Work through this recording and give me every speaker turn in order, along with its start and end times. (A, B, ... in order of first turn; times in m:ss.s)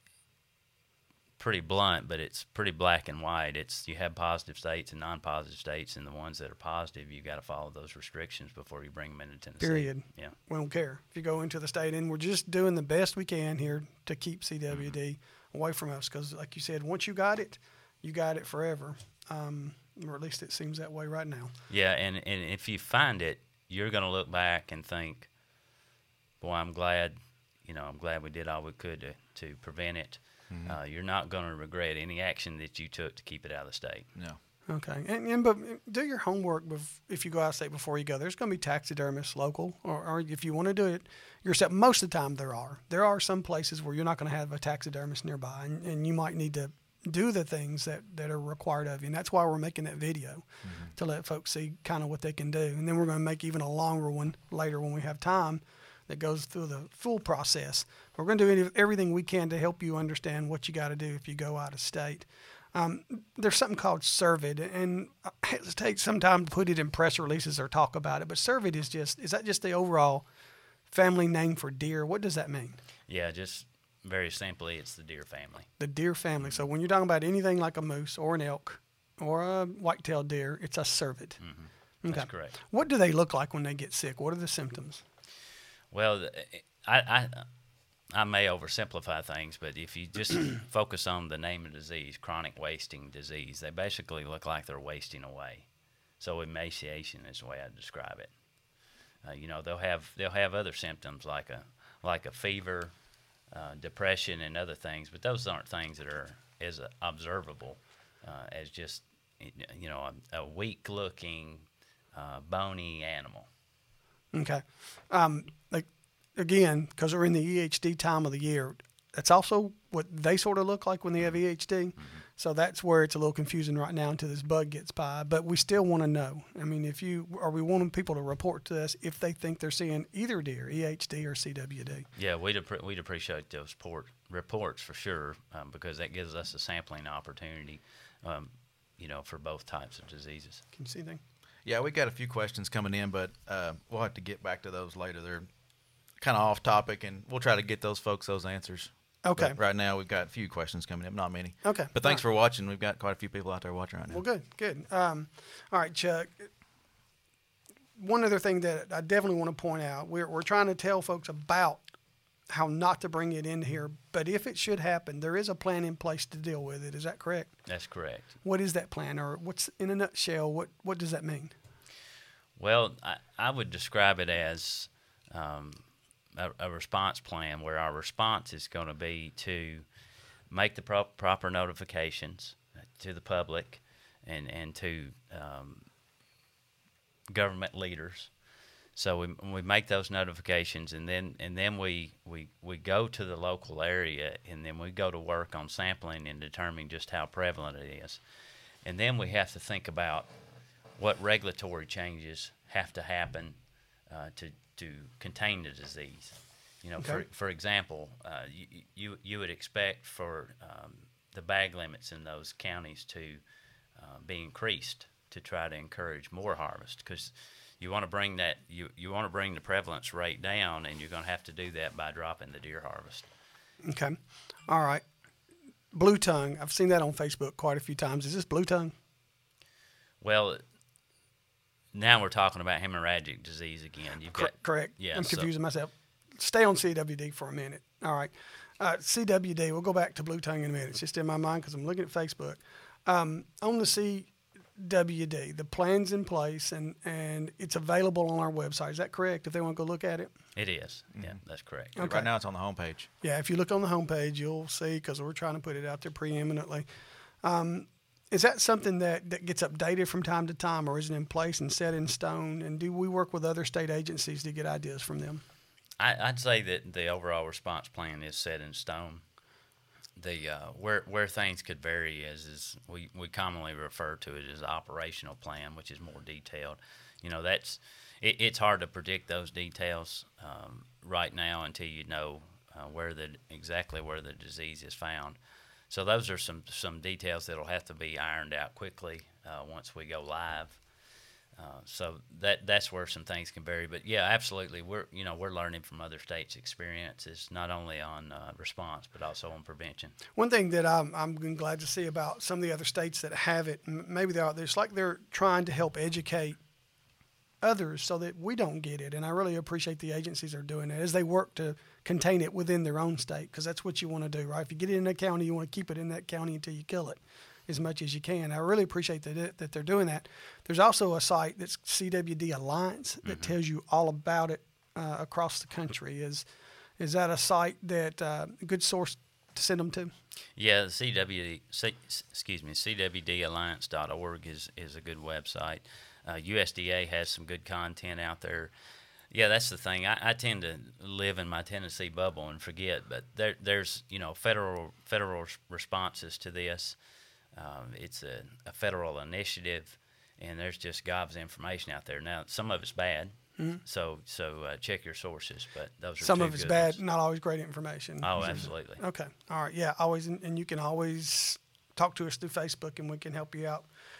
0:01.4-0:10.4 A
0:09.6-0:21.5 B
0:14.7-0:15.0 A
0:21.7-0:25.3 A
0:26.4-0:34.1 A
0:30.5-0:30.8 C
0:34.7-1:10.2 B
0:50.6-0:50.9 C
1:10.9-1:12.8 B
1:13.1-1:15.7 A
1:15.8-1:21.4 B
1:21.4-1:22.6 A
1:22.0-1:25.0 B
1:25.9-1:27.5 A
1:28.1-1:35.7 A
1:36.2-1:38.3 A
1:39.2-1:42.9 A
1:43.5-1:53.5 A
1:54.3-2:12.1 B
2:12.2-2:20.6 A
2:20.7-2:21.2 B
2:21.6-2:25.5 C
2:26.2-2:34.2 C
2:29.2-2:29.6 B
2:31.6-2:32.2 B
2:34.1-2:36.5 B
2:38.0-2:41.8 B
2:42.5-2:47.6 B
2:47.6-2:48.3 A
2:48.4-2:51.5 B
2:52.6-2:59.8 A
3:00.5-3:05.9 A
3:07.3-3:08.3 A
3:08.9-3:18.2 A
3:18.8-3:20.3 A
3:21.0-3:33.4 A
3:34.0-3:43.3 A
3:43.8-3:45.0 B
3:45.9-3:48.9 B
3:50.2-3:50.6 A
3:51.9-3:55.5 A
3:54.3-4:10.3 B
4:10.5-4:12.0 A
4:12.0-4:12.3 B
4:12.0-4:13.1 C
4:13.2-4:16.8 B
4:17.4-4:25.4 B
4:26.0-4:29.2 A
4:30.2-4:45.4 A
4:45.9-4:50.8 A
4:51.6-5:00.1 A
5:00.4-5:06.6 B
5:07.6-5:26.4 B
5:23.2-5:23.6 A
5:27.0-5:30.1 B
5:30.6-5:38.7 A
5:39.3-5:47.0 A
5:47.5-5:57.0 A
5:56.2-6:03.9 B
5:58.2-5:59.0 A
5:58.4-5:58.7 C